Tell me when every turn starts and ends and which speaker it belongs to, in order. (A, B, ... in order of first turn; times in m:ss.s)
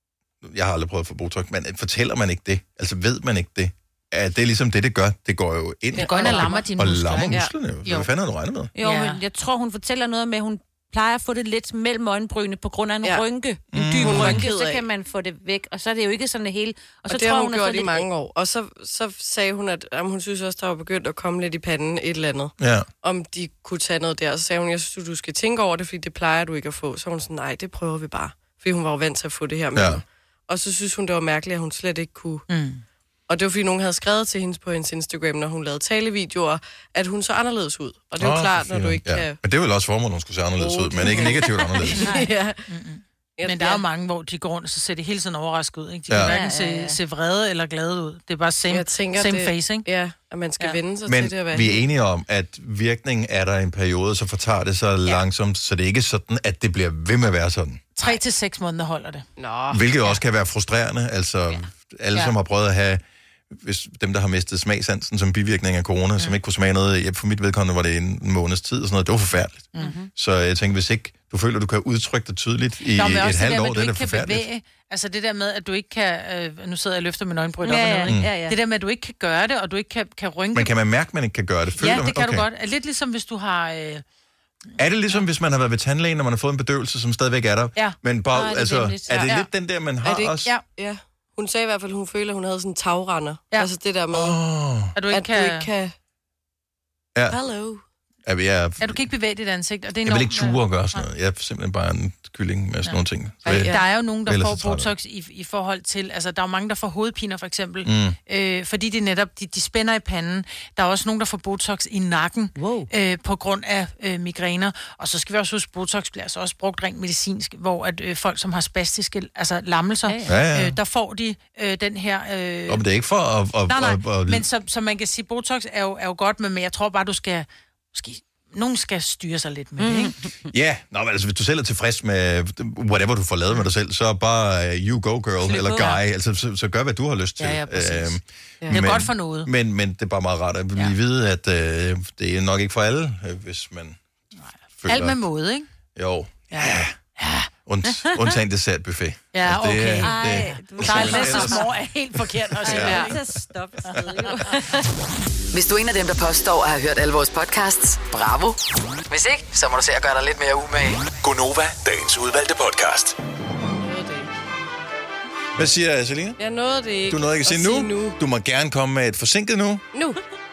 0:00.4-0:08.7 A
0:06.0-0:06.6 B
0:06.0-0:07.4 C
0:06.2-0:06.6 D
0:07.8-0:08.1 D
0:08.8-0:18.1 C
0:08.8-0:09.2 D
0:13.7-0:14.5 A
0:14.0-0:14.8 B
0:17.1-0:32.5 B
0:22.6-0:22.9 A
0:29.8-0:30.0 A
0:32.5-0:32.8 D
0:33.3-0:39.4 B
0:38.2-0:42.2 A
0:40.6-0:42.7 B
0:42.0-0:49.9 D
0:43.4-0:43.8 B
0:46.1-0:46.4 A
0:46.2-0:47.0 C
0:48.7-0:51.8 B
0:51.1-0:57.8 A
0:58.0-0:59.2 D
0:59.4-0:59.8 B
0:59.7-1:14.5 A
1:09.8-1:10.1 C
1:12.9-1:20.7 D
1:17.6-1:18.6 C
1:20.5-1:22.5 A
1:21.8-1:24.0 D
1:24.8-1:30.5 A
1:28.3-1:29.3 C
1:30.0-1:34.4 B
1:34.1-1:35.0 A
1:35.0-1:35.7 D
1:35.1-1:35.9 B
1:37.3-1:37.8 B
1:38.2-1:39.0 A
1:38.8-1:41.0 D
1:40.0-1:43.7 A
1:43.4-1:43.8 B
1:43.5-2:02.8 D
1:44.3-1:44.9 A
1:47.8-1:48.2 A
1:52.6-1:52.9 C
2:00.1-2:00.4 C
2:00.3-2:00.8 A
2:02.7-2:04.4 A
2:03.7-2:10.1 D
2:09.8-2:10.3 C
2:10.5-2:24.0 A
2:15.5-2:16.0 D
2:17.4-2:18.2 D
2:18.7-2:19.5 D
2:24.4-2:25.7 D
2:24.8-2:25.2 A
2:26.0-2:27.0 A
2:26.5-2:27.5 D
2:27.7-2:31.7 A
2:29.3-2:33.2 D
2:30.0-2:31.7 C
2:32.6-2:33.2 A
2:32.6-2:34.8 C
2:32.8-2:33.1 B
2:35.5-2:41.1 E
2:41.2-2:43.2 F
2:43.8-2:44.3 B
2:45.6-2:46.4 A
2:46.4-2:48.2 B
2:47.1-2:49.9 A
2:49.9-2:50.2 B